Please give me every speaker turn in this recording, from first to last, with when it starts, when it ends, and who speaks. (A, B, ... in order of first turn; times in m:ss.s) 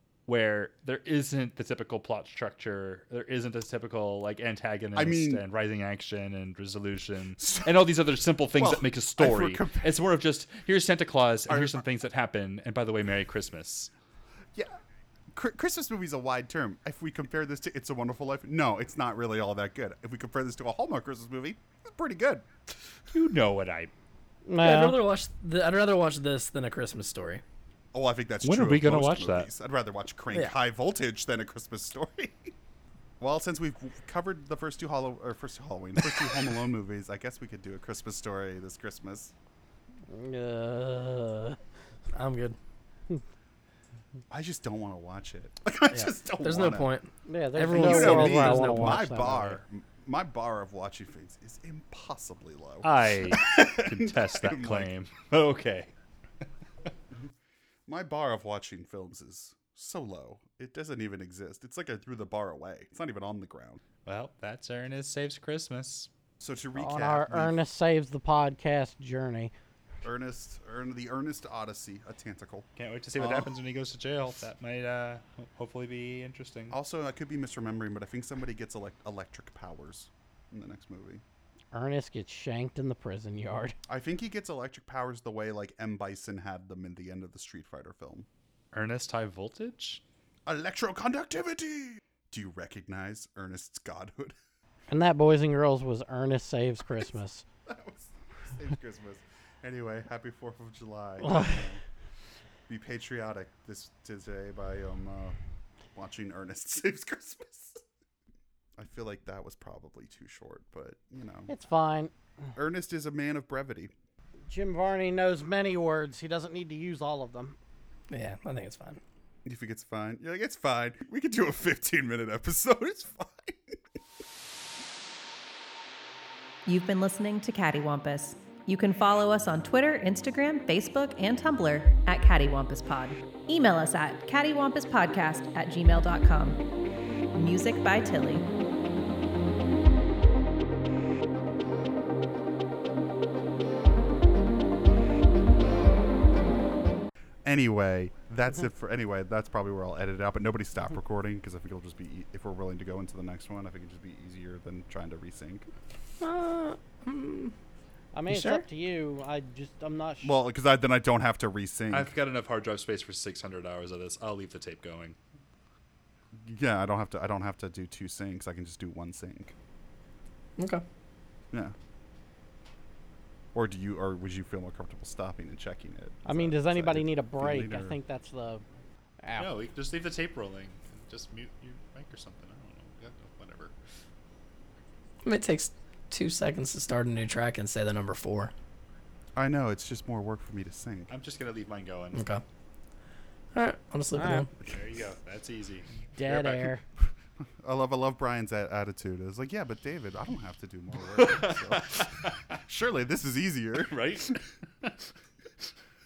0:00.2-0:13.9 A
0:04.9-0:05.4 B
0:07.4-0:07.7 B
0:08.6-0:09.9 B
0:11.5-0:11.8 B
0:15.3-0:22.5 B
0:23.1-0:23.9 A
0:24.5-0:25.0 C
0:24.6-0:27.4 D
0:27.9-0:32.5 B
0:28.4-0:29.5 A
0:33.2-0:39.3 B
0:40.1-0:41.6 C
0:42.1-0:42.6 D
0:44.3-0:46.9 B
0:45.9-0:49.0 D
0:47.2-0:49.6 C
0:47.7-0:54.9 B
0:52.8-0:55.9 A
0:57.9-1:03.8 B
1:04.0-1:06.1 A
1:06.4-1:07.6 B
1:06.8-1:09.5 C
1:10.0-1:12.7 B
1:12.8-1:16.8 A
1:13.2-1:13.5 B
1:16.7-1:21.2 B
1:21.7-1:23.8 C
1:23.9-1:28.3 B
1:28.7-1:30.0 A
1:30.4-1:34.4 B
1:34.9-1:37.4 C
1:37.6-1:41.8 B
1:41.3-1:41.5 C
1:42.7-1:45.4 B
1:45.9-1:47.8 B
1:48.8-1:51.5 B
1:51.5-1:52.1 C
1:52.6-1:53.9 B
1:54.5-1:57.6 C
1:58.1-1:59.0 D
1:59.4-2:03.8 B
2:06.6-2:16.6 E
2:17.3-2:18.5 E
2:27.4-2:35.7 B
2:36.2-2:37.5 D
2:38.1-2:40.4 C
2:38.3-2:38.6 D
2:40.2-2:42.1 B
2:41.9-2:45.2 A
2:46.4-2:49.5 B
2:50.6-2:50.8 D
2:53.5-2:57.9 B
2:56.2-2:58.6 C
2:59.2-2:59.5 C
2:59.4-3:03.7 A
3:05.2-3:08.5 D
3:09.4-3:11.1 B
3:11.1-3:12.2 A
3:12.1-3:12.4 D
3:13.5-3:14.5 D
3:14.1-3:14.5 C
3:14.6-3:16.7 A
3:16.1-3:16.8 C
3:17.4-3:24.4 B
3:21.1-3:22.6 A
3:23.8-3:25.1 A